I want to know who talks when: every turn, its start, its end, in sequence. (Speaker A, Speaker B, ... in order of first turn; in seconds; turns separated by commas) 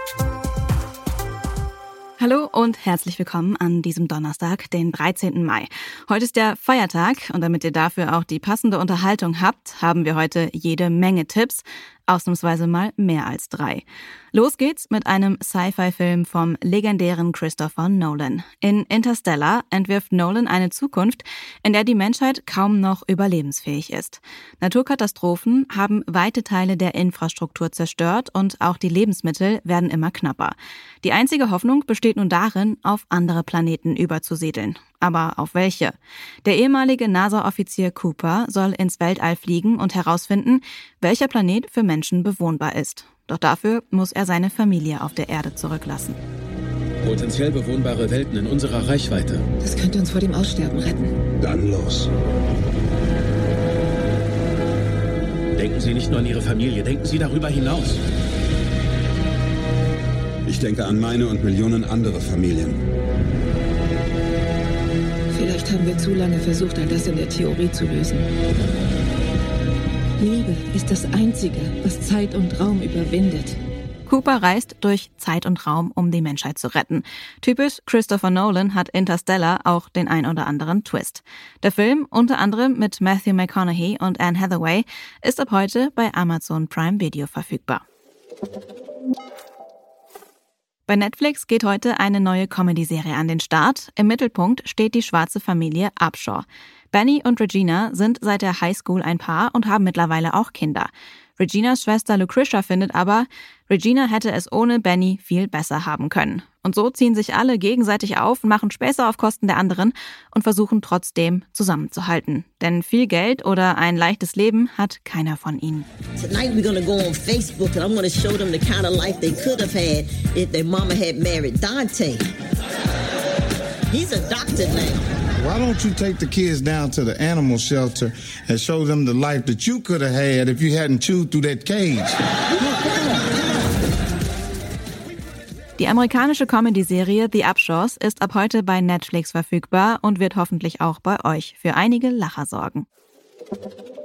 Speaker A: 2.2-46.2, Speaker B: 47.0-49.4, Speaker C: 49.7-51.1, Speaker D: 51.4-52.1, Speaker B: 55.6-58.0, Speaker D: 60.5-62.8, Speaker C: 65.3-68.3, Speaker C: 70.2-73.5, Speaker A: 74.1-87.8, Speaker A: 90.9-115.9, Speaker E: 116.2-122.2, Speaker E: 123.9-125.1, Speaker F: 125.4-132.2, Speaker A: 135.8-142.9